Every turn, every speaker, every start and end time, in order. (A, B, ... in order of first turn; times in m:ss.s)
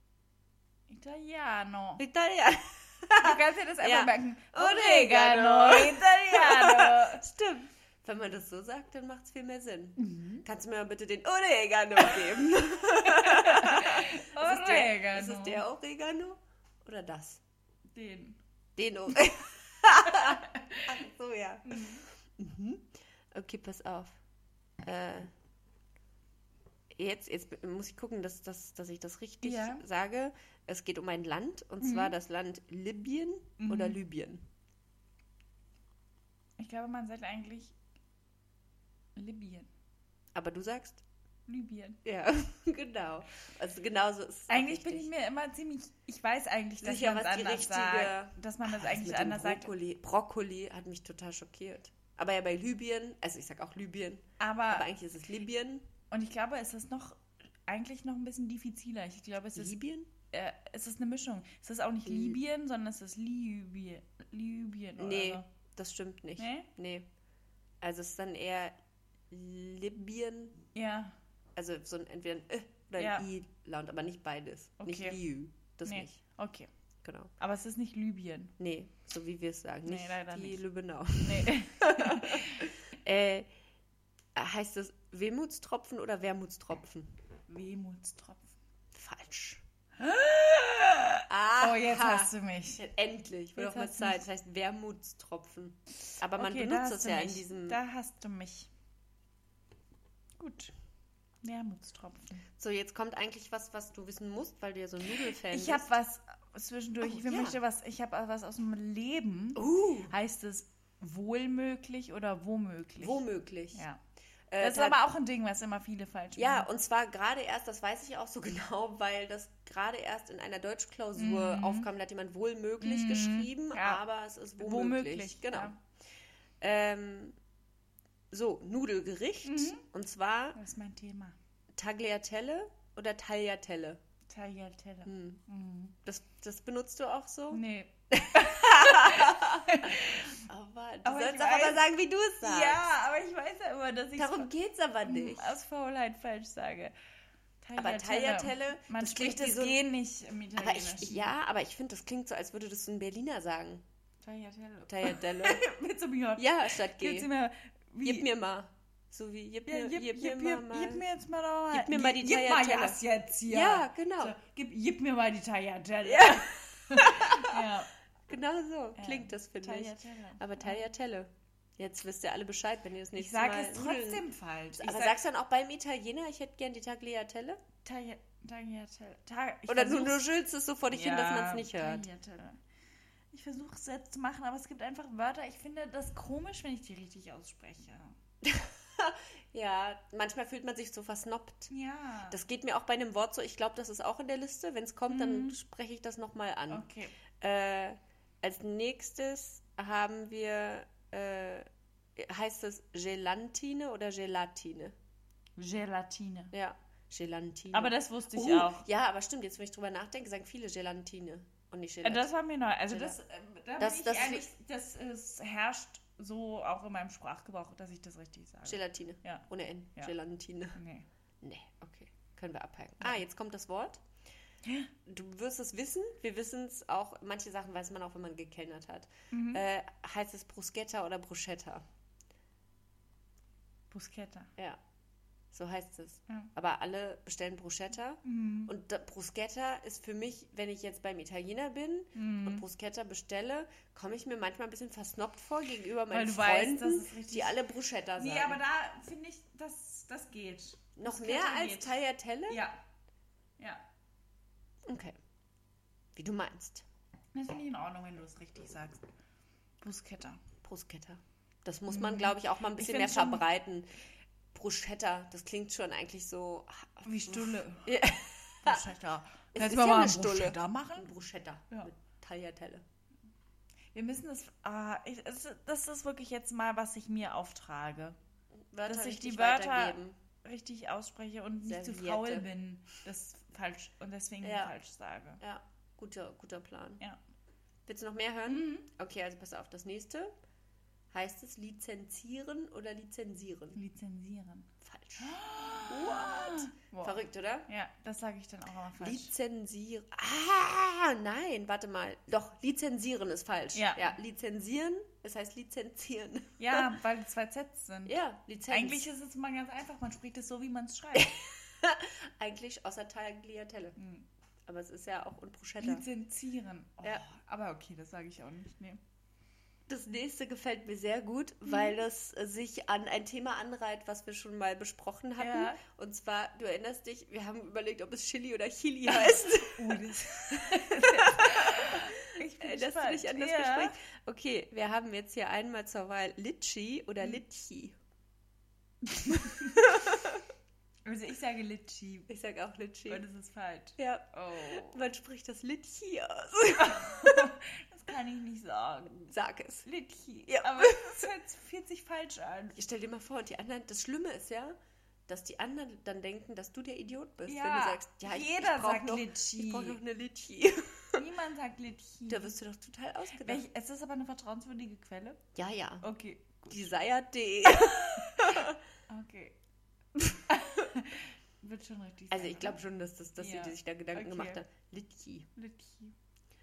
0:00.9-0:02.0 A
0:02.0-0:17.4 B
0:03.2-0:07.2 A
0:10.0-0:10.4 A
0:13.0-0:15.6 A
0:17.9-0:18.4 A
0:18.8-0:24.2 B
0:20.0-0:20.9 A
0:21.6-0:22.0 A
0:24.8-0:25.3 B
0:26.9-0:34.4 B
0:29.4-0:29.8 A
0:31.8-0:32.2 A
0:33.6-0:34.0 A
0:36.6-0:37.8 A
0:39.2-0:39.7 A
0:40.4-0:41.0 B
0:41.5-0:42.0 A
0:42.0-0:45.1 B
0:44.5-0:49.7 A
0:46.8-0:55.9 B
0:54.4-0:54.9 A
0:56.1-0:59.8 A
0:59.6-1:00.1 B
1:00.3-1:05.5 A
1:02.1-1:02.4 B
1:05.0-1:07.1 B
1:06.4-1:06.7 A
1:07.8-1:08.8 B
1:09.3-1:10.6 B
1:10.7-1:11.2 A
1:11.6-1:16.2 B
1:13.0-1:13.3 A
1:14.8-1:15.2 A
1:15.8-1:16.7 A
1:17.0-1:17.3 B
1:17.4-1:18.5 A
1:18.6-1:23.5 B
1:19.9-1:20.6 A
1:21.2-1:22.7 A
1:24.4-1:27.2 B
1:27.5-1:28.6 A
1:28.9-1:29.6 B
1:30.0-1:32.8 A
1:31.3-1:37.8 B
1:33.6-1:34.2 A
1:36.4-1:38.7 A
1:40.4-1:40.7 A
1:41.4-1:42.4 A
1:42.6-1:45.9 B
1:45.4-1:53.2 A
1:47.0-1:47.6 B
1:49.6-1:50.1 B
1:53.0-1:53.8 B
1:53.7-1:54.0 A
1:54.5-1:55.0 B
1:54.6-1:56.7 A
1:56.4-2:05.7 B
2:01.2-2:01.9 A
2:02.8-2:04.0 A
2:04.6-2:05.8 A
2:06.6-2:07.4 B
2:08.3-2:10.6 B
2:09.4-2:09.8 A
2:10.6-2:11.4 A
2:11.8-2:14.0 B
2:14.3-2:16.0 A
2:15.1-2:15.4 B
2:16.0-2:22.8 B
2:17.5-2:20.4 A
2:21.0-2:21.8 A
2:22.4-2:24.5 A
2:24.2-2:25.6 B
2:25.0-2:26.9 A
2:27.6-2:31.3 A
2:27.8-2:29.8 B
2:30.6-2:33.8 B
2:34.2-2:38.3 A
2:34.9-2:35.6 B
2:36.4-2:37.3 B
2:38.0-2:41.0 B
2:39.7-2:47.9 A
2:41.7-2:44.4 B
2:46.0-2:47.7 B
2:48.3-2:54.2 B
2:49.0-2:50.8 A
2:53.2-2:55.2 A
2:54.8-2:57.6 B
2:57.8-3:00.2 A
2:59.7-3:02.1 B
3:00.9-3:02.6 A
3:03.3-3:08.2 A
3:08.4-3:11.7 B
3:11.7-3:12.4 A
3:12.3-3:16.9 B
3:15.1-3:15.6 A
3:16.7-3:17.2 A
3:17.4-3:25.0 B
3:25.6-3:26.5 A
3:26.5-3:32.3 B
3:27.7-3:28.9 A
3:32.0-3:40.1 A
3:32.9-3:33.2 B
3:33.8-3:34.5 B
3:38.6-3:40.8 B
3:40.8-3:41.1 A
3:41.4-3:44.0 B
3:44.6-3:44.9 A
3:45.0-3:51.8 B
3:49.3-3:49.6 A
3:53.9-3:54.5 A
3:55.5-4:08.6 B
3:58.2-3:58.7 A
4:02.2-4:02.6 A
4:06.1-4:07.6 A
4:08.2-4:12.0 A
4:11.0-4:12.6 B
4:12.5-4:12.8 A
4:14.9-4:15.2 B
4:16.2-4:16.9 B
4:17.4-4:19.0 A
4:19.8-4:20.4 A
4:20.6-4:23.9 B
4:21.9-4:23.4 A
4:24.5-4:28.8 B
4:27.0-4:28.0 A
4:28.6-4:31.1 A
4:29.5-4:32.8 B
4:33.9-4:38.2 A
4:38.7-4:40.2 B
4:38.9-4:45.4 A
4:41.6-4:42.4 B
4:44.4-4:44.7 B
4:45.4-4:47.0 B
4:47.9-4:50.3 B
4:48.5-4:48.9 A
4:51.1-4:53.8 B
4:53.7-4:59.3 A
4:54.8-4:57.7 B
4:59.0-5:06.9 B
5:03.7-5:04.2 A
5:06.6-5:08.2 A
5:08.1-5:09.1 B
5:08.7-5:11.3 A
5:11.2-5:14.0 B
5:14.0-5:14.3 A
5:14.7-5:16.0 B
5:15.8-5:19.0 A
5:19.9-5:38.0 B
5:25.4-5:25.8 A
5:29.1-5:33.9 A
5:39.1-5:39.9 A
5:39.8-5:40.4 B
5:41.0-5:42.3 A
5:42.3-5:43.2 B
5:43.1-5:45.0 A
5:44.0-5:47.5 B
5:46.8-5:49.3 A
5:49.3-5:49.9 B
5:49.8-5:52.8 A
5:50.5-5:51.3 B
5:52.8-6:01.2 B
5:57.5-6:00.0 A
6:01.2-6:02.5 A
6:02.3-6:03.6 B
6:03.4-6:05.4 A
6:05.6-6:06.0 B
6:06.0-6:06.8 A
6:06.7-6:08.8 B
6:07.7-6:09.6 A
6:10.2-6:12.8 A
6:12.3-6:15.5 B
6:13.4-6:14.6 A
6:15.6-6:16.1 A